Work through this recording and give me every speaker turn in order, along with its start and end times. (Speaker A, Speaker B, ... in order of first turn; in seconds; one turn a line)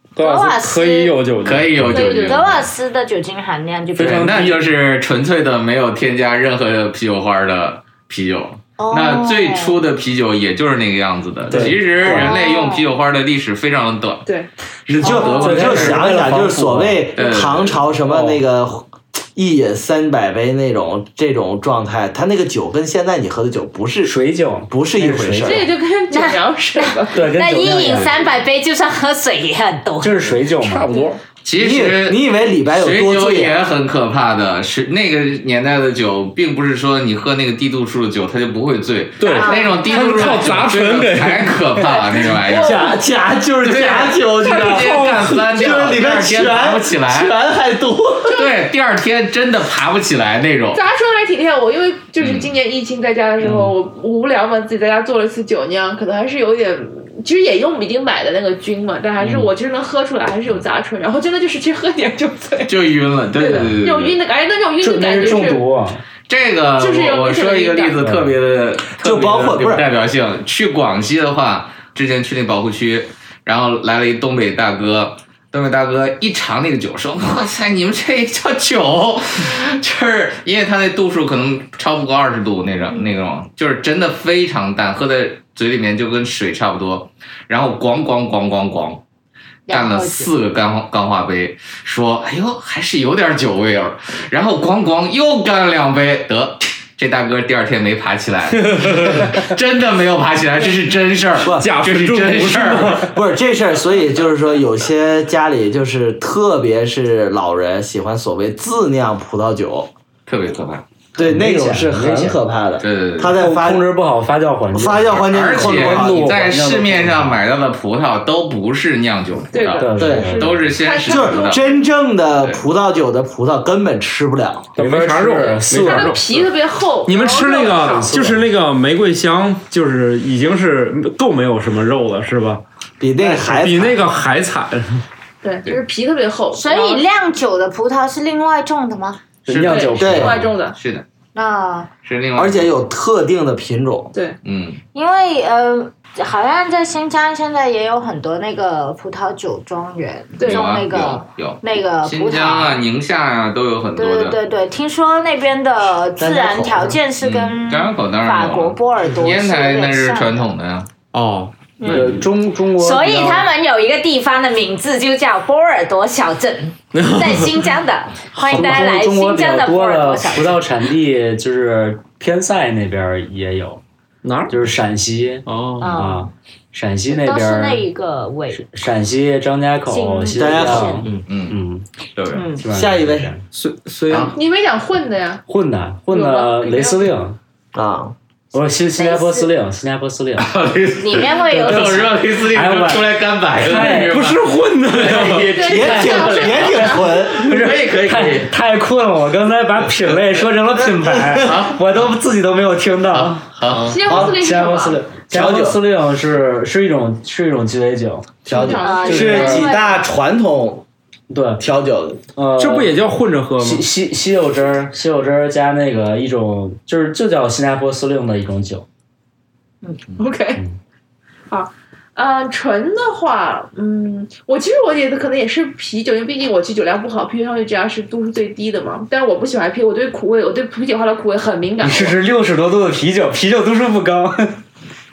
Speaker A: 0.1-2.4
Speaker B: 0.2-1.2
Speaker C: 1.4-2.7
Speaker B: 1.9-4.5
Speaker A: 4.0-4.6
Speaker C: 4.0-14.2
Speaker B: 8.8-9.8
Speaker D: 11.5-12.3
Speaker B: 12.0-12.9
Speaker E: 14.9-24.2
Speaker C: 14.9-16.1
Speaker D: 15.0-17.1
Speaker C: 17.1-17.8
Speaker D: 18.0-18.4
Speaker D: 24.0-25.7
Speaker E: 24.7-25.6
Speaker F: 25.4-27.4
Speaker B: 26.1-30.4
Speaker D: 27.1-28.2
Speaker D: 30.0-30.9
Speaker A: 30.6-31.2
Speaker C: 31.4-42.9
Speaker E: 31.6-33.6
Speaker A: 39.2-41.6
Speaker B: 39.2-40.2
Speaker F: 41.9-43.0
Speaker E: 42.6-48.4
Speaker C: 43.6-47.3
Speaker A: 44.5-45.4
Speaker F: 48.3-48.5
Speaker C: 48.3-50.8
Speaker F: 50.7-62.8
Speaker C: 52.2-52.5
Speaker D: 53.4-53.7
Speaker D: 59.2-59.5
Speaker C: 62.7-64.2
Speaker F: 63.3-65.6
Speaker D: 64.8-66.0
Speaker C: 66.3-89.0
Speaker F: 66.8-68.0
Speaker D: 68.0-68.3
Speaker E: 69.0-69.9
Speaker B: 89.7-90.3
Speaker C: 89.7-103.0
Speaker A: 98.6-99.3
Speaker A: 101.4-103.1
Speaker E: 103.1-109.9
Speaker C: 110.3-110.8
Speaker D: 111.2-112.4
Speaker E: 111.2-113.9
Speaker C: 112.8-113.4
Speaker D: 113.3-117.4
Speaker E: 114.7-116.2
Speaker C: 115.1-121.6
Speaker F: 119.5-121.8
Speaker D: 119.8-120.7
Speaker E: 120.0-120.4
Speaker E: 121.0-124.7
Speaker D: 124.7-126.2
Speaker A: 124.8-126.5
Speaker F: 125.7-128.1
Speaker A: 127.0-132.6
Speaker D: 127.8-128.4
Speaker E: 133.0-134.0
Speaker A: 133.2-135.0
Speaker F: 135.4-137.0
Speaker B: 136.5-139.2
Speaker D: 139.4-140.6
Speaker C: 139.5-139.9
Speaker F: 139.6-140.8
Speaker E: 140.0-140.3
Speaker C: 140.7-141.0
Speaker B: 141.3-141.9
Speaker C: 142.0-142.7
Speaker E: 142.3-144.1
Speaker C: 144.4-144.8
Speaker B: 144.9-152.8
Speaker F: 150.4-150.8
Speaker C: 150.4-154.4
Speaker B: 153.9-160.5
Speaker E: 156.2-157.0
Speaker C: 157.2-160.9
Speaker A: 161.1-162.2
Speaker B: 161.8-162.1
Speaker D: 161.9-163.5
Speaker B: 162.7-170.7
Speaker A: 166.9-167.6
Speaker D: 168.4-173.8
Speaker A: 174.2-174.7
Speaker D: 174.5-177.8
Speaker A: 175.4-176.0
Speaker B: 175.8-176.3
Speaker B: 177.1-178.6
Speaker D: 178.5-181.8
Speaker B: 179.9-181.0
Speaker E: 180.4-181.2
Speaker C: 181.2-181.6
Speaker C: 182.1-182.5
Speaker B: 182.3-182.6
Speaker D: 182.6-183.4
Speaker E: 182.7-183.3
Speaker A: 183.5-184.3
Speaker F: 184.3-185.4
Speaker D: 185.5-187.4
Speaker F: 186.1-187.1
Speaker E: 187.7-188.1
Speaker D: 188.5-190.5
Speaker B: 188.9-189.5
Speaker C: 190.4-196.8
Speaker B: 191.0-192.2
Speaker D: 192.4-194.2
Speaker A: 193.7-195.7
Speaker F: 195.5-197.3
Speaker E: 195.6-197.4
Speaker C: 197.3-198.5
Speaker D: 197.5-203.4
Speaker E: 201.1-201.5
Speaker C: 201.4-202.1
Speaker C: 203.1-204.0
Speaker A: 203.7-204.0
Speaker F: 203.8-205.1
Speaker E: 204.1-204.4
Speaker D: 204.1-209.8
Speaker E: 205.3-205.8
Speaker E: 208.4-210.8
Speaker F: 208.5-209.6
Speaker B: 208.8-210.0
Speaker D: 211.3-211.6
Speaker E: 211.6-212.2
Speaker D: 212.3-213.0
Speaker A: 212.6-213.8
Speaker D: 213.6-218.8
Speaker F: 220.2-220.6
Speaker F: 221.5-232.1
Speaker D: 231.8-234.6